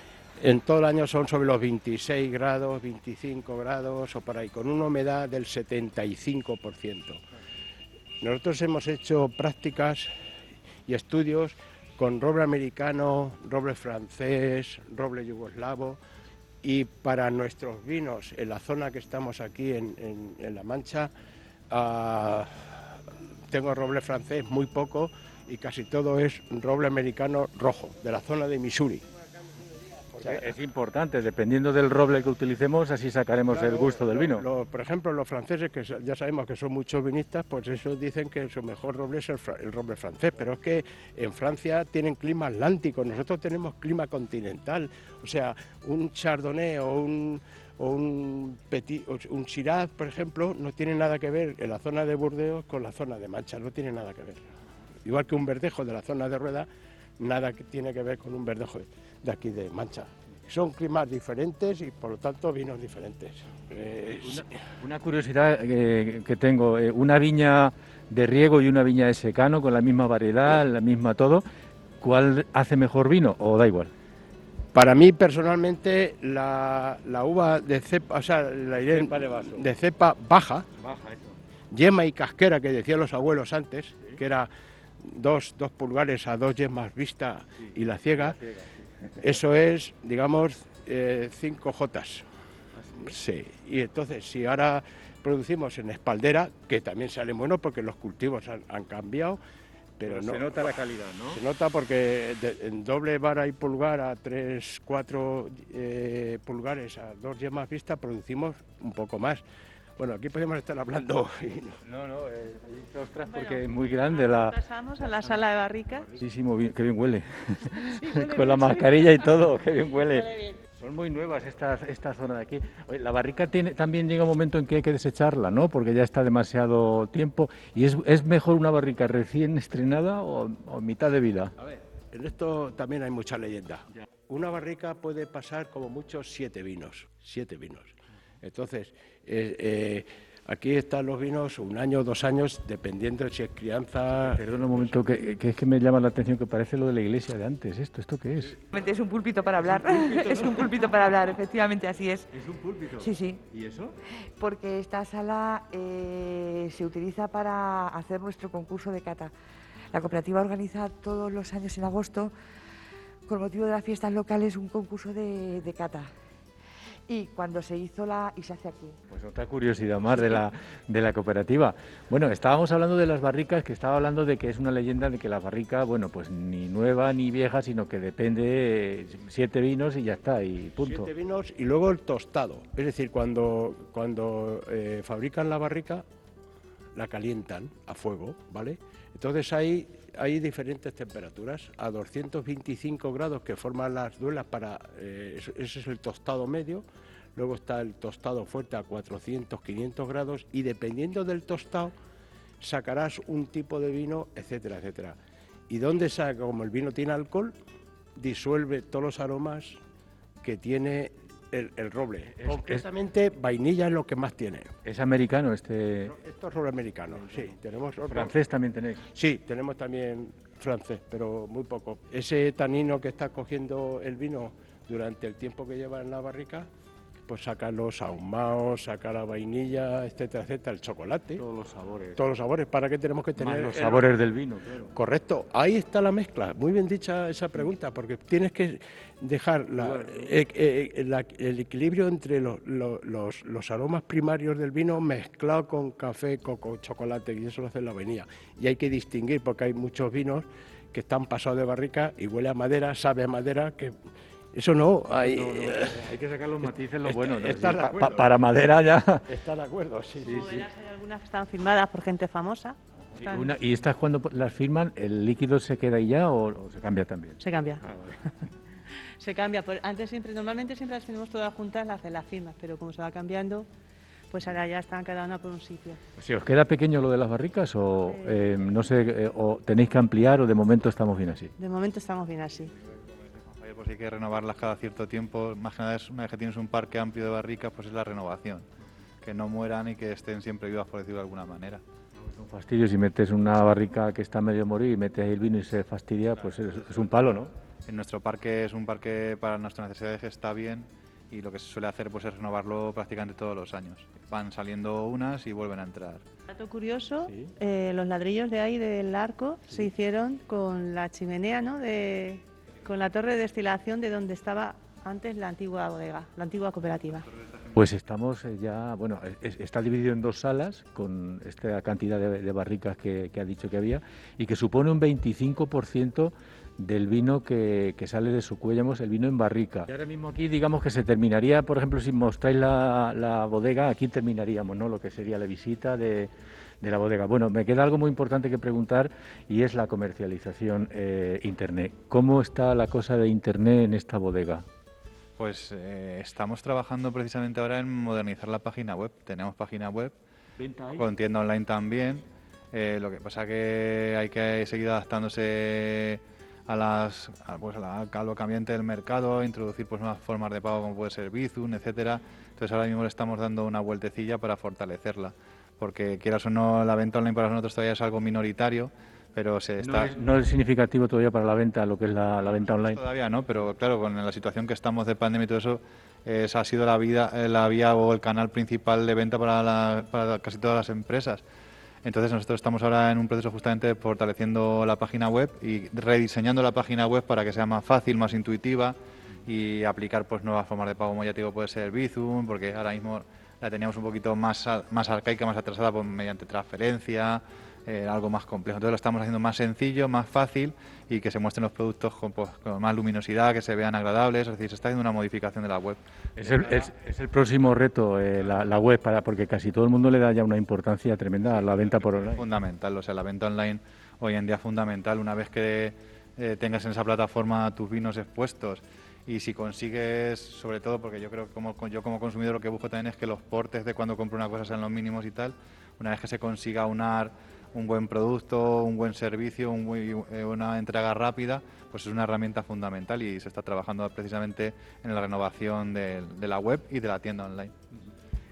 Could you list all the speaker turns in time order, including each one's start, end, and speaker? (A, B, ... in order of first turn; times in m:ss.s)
0:00.4-0:07.2 A
0:08.2-0:10.1 A
0:10.8-0:16.0 A
0:16.6-0:21.1 A
0:21.7-0:22.8 A
0:23.5-0:29.0 A
0:30.1-0:30.5 A
0:30.2-0:34.4 B
0:33.5-0:54.4 A
0:55.0-0:56.7 A
0:57.2-1:04.4 A
1:04.2-1:11.4 B
1:12.0-1:13.9 B
1:14.7-1:20.7 A
1:18.8-1:19.7 B
1:20.8-1:21.4 B
1:21.7-1:24.5 A
1:25.0-1:28.4 A
1:28.1-1:29.3 B
1:29.2-1:32.2 A
1:32.8-1:33.1 B
1:33.0-1:39.4 A
1:40.0-1:40.7 A
1:40.0-1:41.4 B
1:41.3-1:49.4 A
1:50.0-1:51.8 A
1:51.8-1:55.1 B
1:53.3-1:53.6 C
1:54.1-1:56.1 C
1:56.0-2:11.5 B
1:57.9-1:58.9 C
2:11.6-2:24.8 A
2:24.2-2:28.6 B
2:28.7-2:32.3 D
2:29.7-2:30.7 B
2:32.3-2:34.0 B
2:33.0-2:33.4 D
2:34.4-2:39.3 D
2:39.9-2:42.3 D
2:43.3-2:46.1 D
2:47.1-2:49.0 D
2:49.1-3:01.1 B
3:00.8-3:06.0 A
3:06.9-3:16.8 A
3:17.4-3:21.9 A
3:22.6-3:25.2 A
3:25.7-3:27.5 A
3:28.2-3:29.8 A
3:30.4-3:34.7 A
3:32.4-3:32.8 B
3:34.8-3:36.1 B
3:36.0-3:38.3 A
3:38.1-3:39.1 B
3:39.1-3:46.7 A
3:47.3-3:51.4 A
3:51.4-3:52.2 B
3:52.2-3:54.1 A
3:53.4-3:54.9 B
3:54.9-4:13.9 A
3:59.8-4:00.4 B
4:14.5-4:16.1 A
4:15.1-4:19.3 B
4:17.0-4:18.3 A
4:19.3-4:20.6 A
4:20.3-4:23.5 C
4:20.3-4:20.6 B
4:23.2-4:28.2 B
4:27.4-4:27.8 C
4:29.2-4:33.7 C
4:34.3-4:36.0 C
4:36.2-4:41.5 B
4:38.1-4:38.4 C
4:41.6-4:42.7 C
4:43.6-4:48.6 E
4:49.2-4:51.8 E
4:52.2-4:57.5 B
4:57.9-5:06.2 E
5:06.5-5:17.3 C
5:07.2-5:07.5 B
5:17.7-5:44.6 B
5:45.4-5:50.1 E
5:50.6-5:51.0 B
5:51.0-6:10.2 E
6:09.8-6:13.0 B
6:12.4-6:21.4 E
6:22.0-6:46.0 E
6:46.4-6:52.4 B
6:51.6-7:17.7 E